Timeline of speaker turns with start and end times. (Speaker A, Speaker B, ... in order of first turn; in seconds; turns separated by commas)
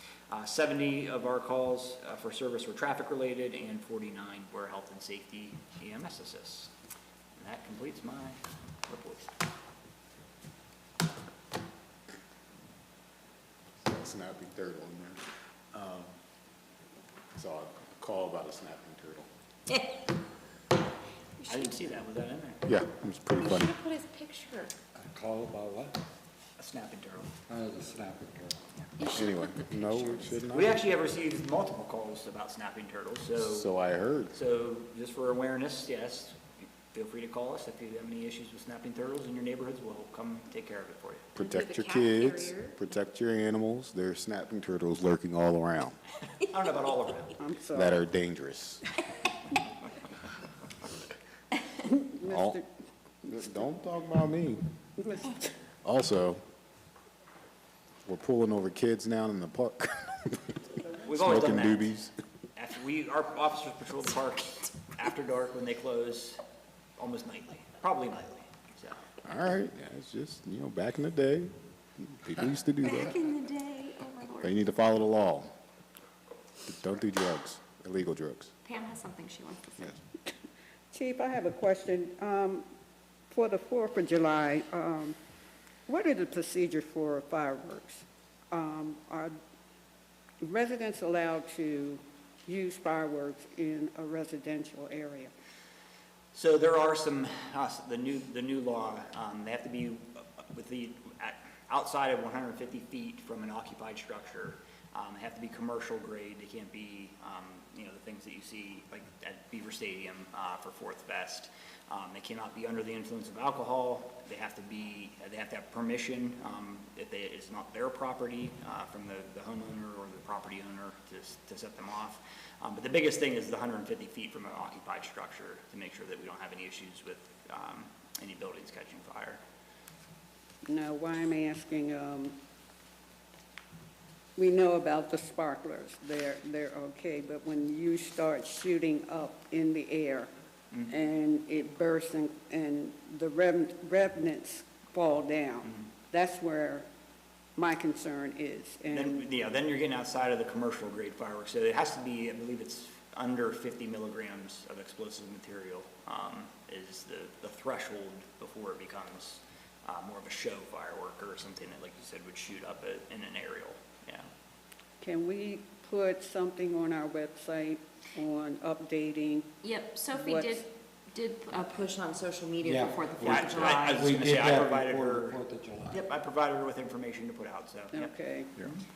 Speaker A: 0.3-6.7, Speaker A: 7.3-9.3, Speaker B: 13.8-16.1, Speaker B: 17.3-19.3, Speaker C: 19.7-19.9, Speaker C: 21.4-21.9, Speaker A: 21.5-22.6, Speaker B: 22.6-23.7, Speaker C: 23.3-24.7, Speaker D: 24.9-26.0, Speaker A: 26.6-27.3, Speaker D: 27.5-28.6, Speaker C: 29.0-30.4, Speaker B: 29.1-30.8, Speaker A: 30.5-33.7, Speaker B: 33.4-34.3, Speaker A: 34.3-41.3, Speaker B: 41.3-46.0, Speaker C: 41.4-42.8, Speaker A: 46.5-47.4, Speaker E: 47.4-48.0, Speaker B: 47.7-48.9, Speaker E: 51.8-52.6, Speaker B: 52.3-52.6, Speaker B: 53.2-54.8, Speaker E: 55.0-55.5, Speaker B: 55.8-56.4, Speaker B: 58.0-60.6, Speaker A: 61.0-61.9, Speaker B: 61.1-62.1, Speaker A: 62.5-66.4, Speaker A: 67.0-69.0, Speaker B: 69.2-73.2, Speaker C: 72.8-74.6, Speaker B: 74.4-75.5, Speaker B: 76.6-78.5, Speaker C: 78.6-80.0, Speaker E: 80.9-82.7, Speaker E: 83.3-85.2, Speaker E: 85.9-89.3, Speaker E: 90.4-95.3, Speaker A: 96.3-129.4, Speaker E: 130.7-132.3, Speaker E: 134.3-140.3, Speaker E: 140.9-146.8, Speaker E: 147.6-149.2, Speaker A: 148.9-164.3, Speaker E: 165.0-169.5, Speaker C: 169.6-174.1, Speaker E: 170.1-170.6, Speaker D: 172.6-176.1, Speaker A: 173.2-175.4, Speaker A: 175.9-178.8, Speaker E: 177.9-178.5